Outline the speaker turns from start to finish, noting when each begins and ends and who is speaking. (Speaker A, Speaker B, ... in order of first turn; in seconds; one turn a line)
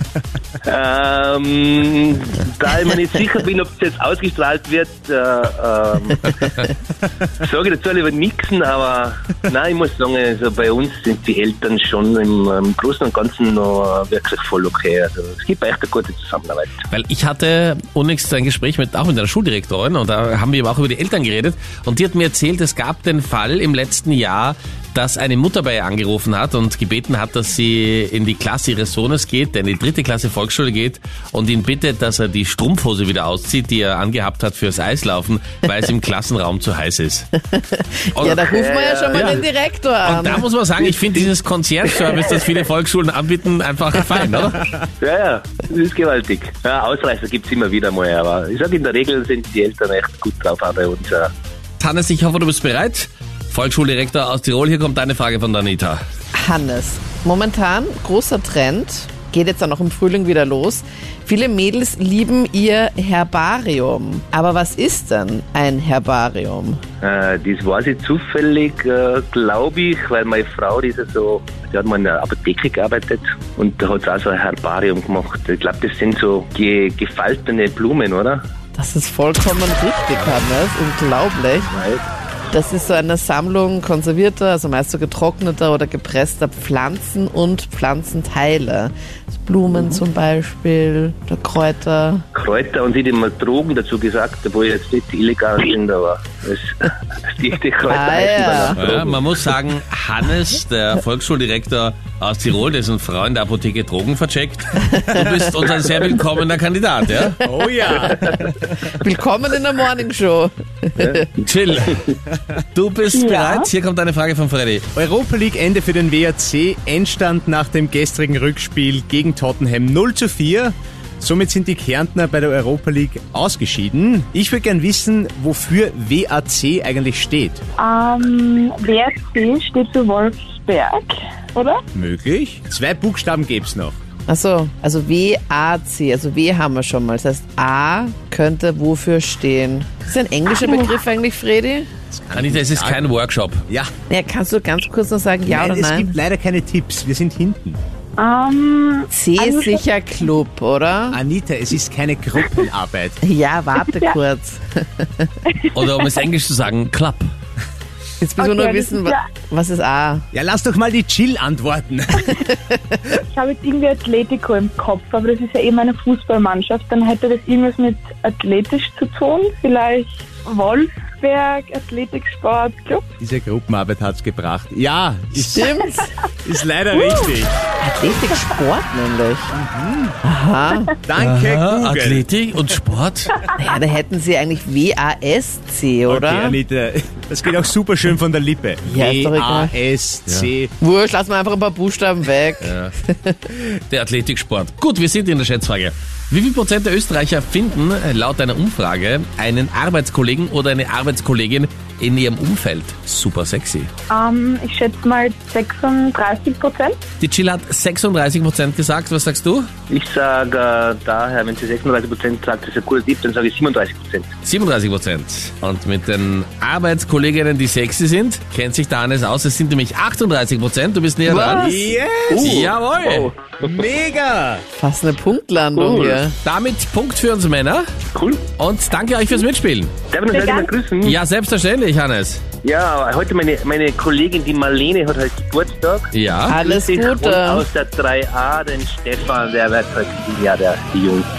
Speaker A: 0.7-6.6
Speaker A: 7.4-16.8
Speaker B: 16.9-37.3
Speaker C: 37.4-40.5
Speaker B: 38.2-38.5
Speaker A: 38.5-39.5
Speaker B: 40.0-44.7
Speaker A: 45.0-51.3
Speaker B: 51.8-56.0
Speaker C: 56.4-66.8
Speaker A: 67.0-78.4
Speaker C: 78.8-81.7
Speaker A: 81.7-82.0
Speaker C: 82.5-92.2
Speaker A: 92.3-99.2
Speaker C: 97.9-98.8
Speaker B: 98.8-107.4
Speaker D: 107.4-108.9
Speaker C: 108.9-111.3
Speaker A: 111.0-111.3
Speaker B: 111.4-112.0
Speaker B: 112.7-114.9
Speaker E: 113.1-113.7
Speaker D: 115.0-127.6
Speaker E: 127.8-131.8
Speaker D: 131.9-134.0
Speaker C: 134.3-141.9
Speaker D: 142.1-143.1
Speaker B: 142.3-143.6
Speaker C: 144.1-146.2
Speaker D: 145.5-147.8
Speaker E: 148.2-149.8
Speaker C: 149.1-151.2
Speaker D: 151.1-153.2
Speaker C: 153.2-155.3
Speaker E: 153.8-154.2
Speaker B: 155.7-157.3
Speaker C: 158.2-160.3
Speaker E: 158.4-159.2
Speaker D: 160.3-162.3
Speaker C: 162.5-163.0
Speaker E: 163.2-173.1
Speaker D: 173.2-175.7
Speaker C: 175.5-176.1
Speaker D: 176.4-177.6
Speaker E: 176.9-177.4
Speaker C: 177.8-179.6
Speaker D: 179.5-180.2
Speaker C: 180.2-180.9
Speaker D: 181.1-182.2
Speaker B: 181.2-183.3
Speaker C: 183.6-186.6
Speaker D: 186.1-190.7
Speaker C: 188.9-189.7
Speaker C: 190.8-193.5
Speaker B: 192.6-192.9
Speaker B: 193.9-203.9
Speaker E: 204.1-207.0
Speaker B: 207.2-209.7
Speaker A: 209.9-214.3
Speaker B: 214.4-221.7
Speaker C: 221.3-221.9
Speaker D: 221.6-222.7
Speaker A: 222.3-222.8
Speaker B: 222.4-223.3
Speaker D: 223.2-224.6
Speaker C: 224.8-226.4
Speaker A: 225.8-226.2
Speaker B: 226.4-227.9
Speaker A: 228.1-228.5
Speaker B: 228.6-229.9
Speaker A: 230.1-231.2
Speaker E: 230.3-230.7
Speaker B: 231.0-232.4
Speaker A: 232.6-241.3
Speaker B: 236.1-236.6
Speaker C: 236.5-237.7